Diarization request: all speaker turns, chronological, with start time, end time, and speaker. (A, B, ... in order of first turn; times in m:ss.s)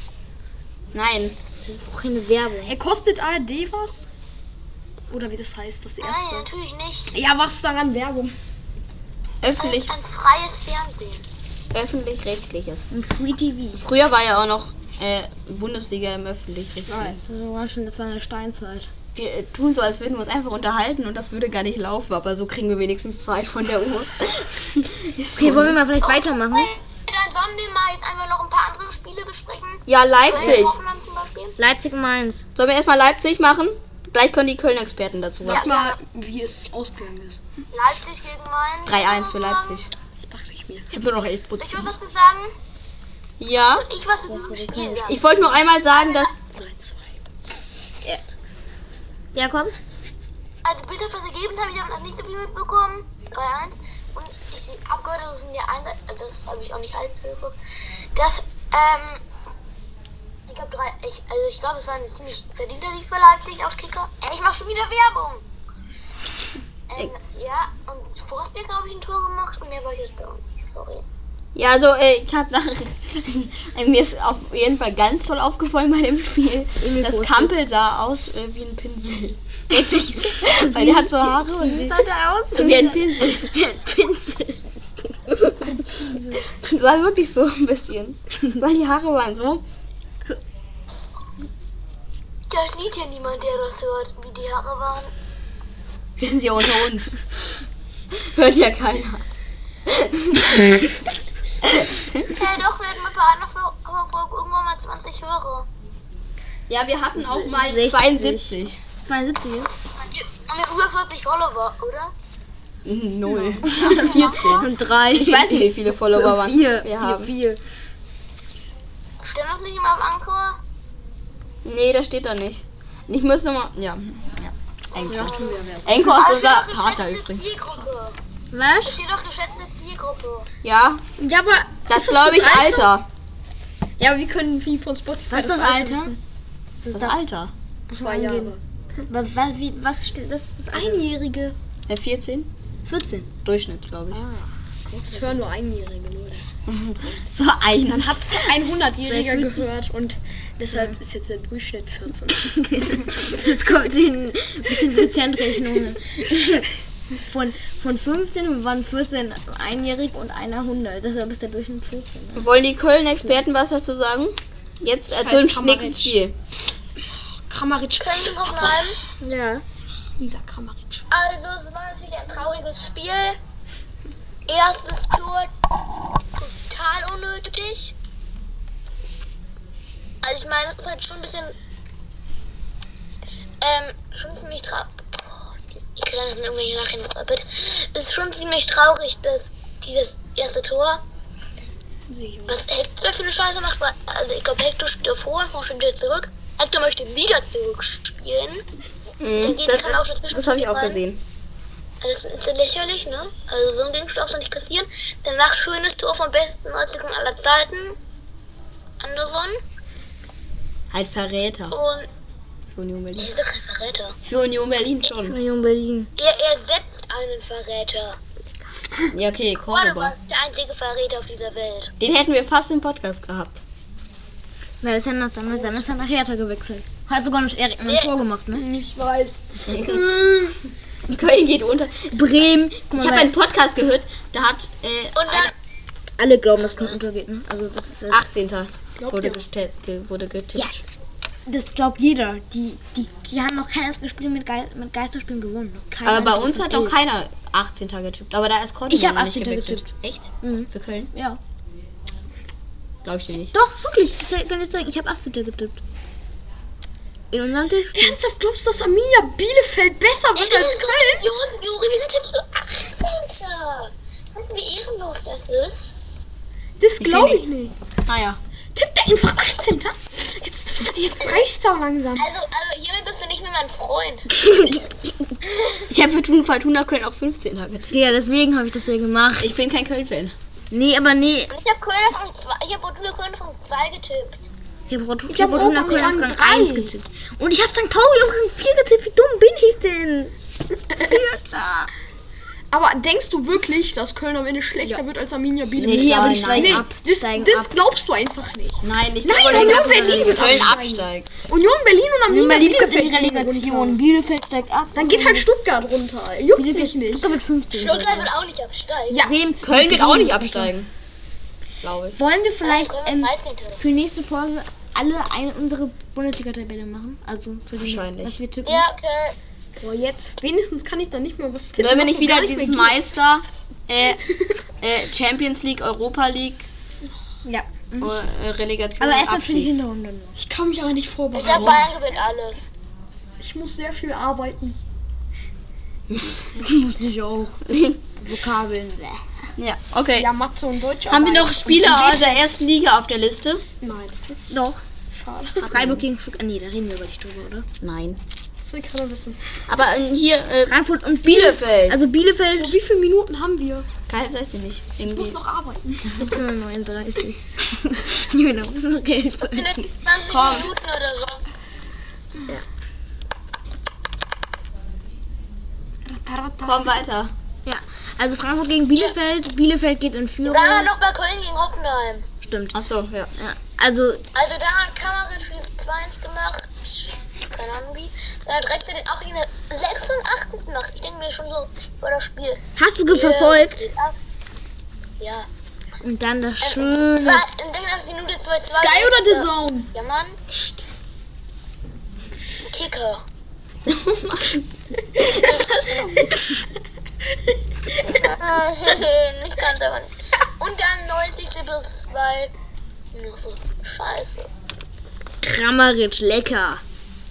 0:00.9-0:01.4 A
0:01.6-0:02.7 B
0:02.6-0:04.0 C
0:05.1-0:06.5 C
0:06.0-0:07.2 D
0:07.1-0:08.3 C
0:09.4-0:09.9 A
0:09.6-0:11.2 D
0:11.7-0:12.9 A
0:12.9-0:13.8 B
0:13.8-0:17.2 A
0:16.9-0:17.2 C
0:17.2-0:18.9 B
0:19.1-0:25.8 A
0:25.3-0:26.7 B
0:26.0-0:31.6 D
0:29.9-0:30.8 A
0:31.6-0:32.4 B
0:32.5-0:35.6 A
0:35.4-0:36.0 D
0:35.4-0:37.4 C
0:37.7-0:39.8 D
0:38.8-0:39.9 A
0:40.3-0:40.9 C
0:40.9-0:41.9 A
0:41.6-0:42.5 D
0:43.4-0:43.8 A
0:43.7-0:45.2 D
0:44.3-0:45.2 B
0:45.0-0:46.3 A
0:46.0-0:46.3 D
0:46.4-0:47.2 C
0:49.3-0:49.7 B
0:50.6-0:57.6 D
0:58.1-0:59.2 D
1:00.5-1:05.4 D
1:06.9-1:11.0 D
1:11.5-1:23.4 A
1:16.8-1:17.6 B
1:19.7-1:24.6 B
1:25.7-1:26.4 C
1:26.3-1:29.6 A
1:32.5-1:35.1 D
1:36.2-1:37.2 A
1:38.2-1:39.2 A
1:39.8-1:40.8 A
1:41.6-1:42.3 A
1:42.3-1:45.6 D
1:46.7-1:48.8 A
1:47.2-1:49.7 B
1:49.9-1:52.1 D
1:52.8-1:57.3 A
1:53.2-1:54.0 C
1:53.6-1:57.6 B
1:54.2-1:54.6 D
1:59.2-2:00.6 D
2:01.6-2:07.4 A
2:05.0-2:06.2 C
2:05.0-2:08.2 D
2:08.5-2:09.0 B
2:08.8-2:10.5 D
2:10.6-2:11.0 A
2:11.2-2:12.9 C
2:11.9-2:13.1 A
2:14.0-2:16.2 C
2:15.3-2:16.2 B
2:16.8-2:17.2 B
2:16.9-2:17.5 A
2:17.9-2:18.6 B
2:17.9-2:18.6 C
2:19.1-2:21.1 B
2:20.7-2:21.5 C
2:21.9-2:22.5 A
2:22.8-2:23.3 B
2:23.4-2:24.2 A
2:24.1-2:25.5 B
2:25.1-2:26.5 C
2:26.6-2:28.3 A
2:27.8-2:32.6 C
2:29.0-2:29.7 B
2:32.5-2:42.5 B
2:42.3-2:46.3 A
2:45.1-2:46.1 C
2:47.4-2:48.9 C
2:48.0-2:49.0 D
2:49.2-2:49.6 B
2:50.2-2:51.0 C
2:51.1-2:53.4 D
2:54.5-2:55.5 D
2:56.4-2:57.9 D
3:00.2-3:01.5 D
3:03.6-3:11.0 D
3:12.1-3:12.6 C
3:12.5-3:18.6 D
3:19.2-3:21.2 A
3:19.4-3:21.0 D
3:22.0-3:28.0 D
3:29.0-3:29.6 D
3:30.9-3:31.8 A
3:31.7-3:32.1 D
3:32.7-3:33.3 A
3:33.2-3:34.2 D
3:34.2-3:35.4 A
3:35.2-3:36.1 B
3:36.2-3:38.2 D
3:39.1-3:40.1 A
3:39.6-3:41.9 D
3:42.0-3:43.6 A
3:44.8-3:48.6 B
3:47.8-3:48.1 D
3:48.6-3:50.6 C
3:49.7-3:50.5 A
3:51.1-3:52.4 A
3:52.1-3:53.3 B
3:52.9-3:55.5 A
3:55.2-3:55.5 D
3:56.2-3:58.3 B
3:58.1-4:00.8 A
3:59.0-3:59.4 C
4:01.5-4:07.0 B
4:06.0-4:11.1 A
4:08.9-4:09.9 B
4:10.4-4:11.4 B
4:13.0-4:13.5 A
4:13.5-4:15.8 B
4:17.3-4:18.2 B
4:18.0-4:21.3 C
4:20.3-4:26.0 D
4:26.8-4:27.7 C
4:27.0-4:27.5 A
4:28.0-4:28.4 A
4:28.7-4:32.3 C
4:32.2-4:35.9 D
4:34.3-4:34.8 B
4:35.9-4:38.1 A
4:37.9-4:39.6 B
4:39.4-4:40.3 A
4:40.7-4:41.5 B
4:41.5-4:44.5 D
4:44.9-4:51.9 B
4:45.3-4:46.9 C
4:52.7-5:04.0 C
4:55.8-4:56.8 A
4:55.8-4:57.7 B
4:58.8-5:01.3 A
4:59.3-5:00.7 B
5:02.3-5:05.5 B
5:04.9-5:07.3 C
5:06.6-5:08.3 B
5:07.7-5:09.3 D
5:09.1-5:10.7 B
5:09.6-5:10.9 A
5:11.8-5:12.2 A
5:12.1-5:18.8 B
5:12.6-5:13.8 D
5:17.8-5:18.4 A
5:18.6-5:19.3 D
5:19.8-5:23.1 C
5:21.8-5:24.2 A
5:24.8-5:26.7 A
5:27.4-5:28.2 B
5:28.0-5:29.8 A
5:29.0-5:30.4 B
5:30.4-5:31.9 C
5:31.3-5:32.7 D
5:31.4-5:31.8 A
5:33.4-5:34.8 C
5:36.1-5:36.4 A
5:36.6-5:37.6 B
5:37.7-5:38.0 A
5:38.2-5:39.2 B
5:39.6-5:40.3 A
5:40.2-5:42.5 C
5:41.0-5:43.6 A
5:43.8-5:44.2 C
5:44.5-5:44.8 B
5:45.1-5:45.9 C
5:45.6-5:47.6 B
5:47.8-5:48.2 A
5:48.6-5:49.4 C
5:49.7-5:52.0 A
5:50.6-5:52.8 B
5:52.6-5:53.9 C
5:54.1-5:55.4 A
5:55.0-5:56.3 C
5:56.0-5:59.9 B
5:59.5-6:01.4 D
6:00.3-6:00.7 A
6:06.1-6:06.8 B
6:06.6-6:07.3 A
6:07.6-6:10.9 B
6:10.4-6:12.2 D
6:12.4-6:12.8 B
6:12.7-6:13.3 A
6:13.3-6:14.2 B
6:14.3-6:24.1 D
6:22.8-6:23.8 B
6:25.2-6:25.5 D
6:26.0-6:27.4 B
6:26.6-6:30.4 D
6:28.7-6:29.9 C
6:32.7-6:33.2 D
6:33.8-6:34.6 A
6:35.2-6:36.2 A
6:38.2-6:42.5 D
6:43.1-6:44.5 D
6:45.4-6:46.8 B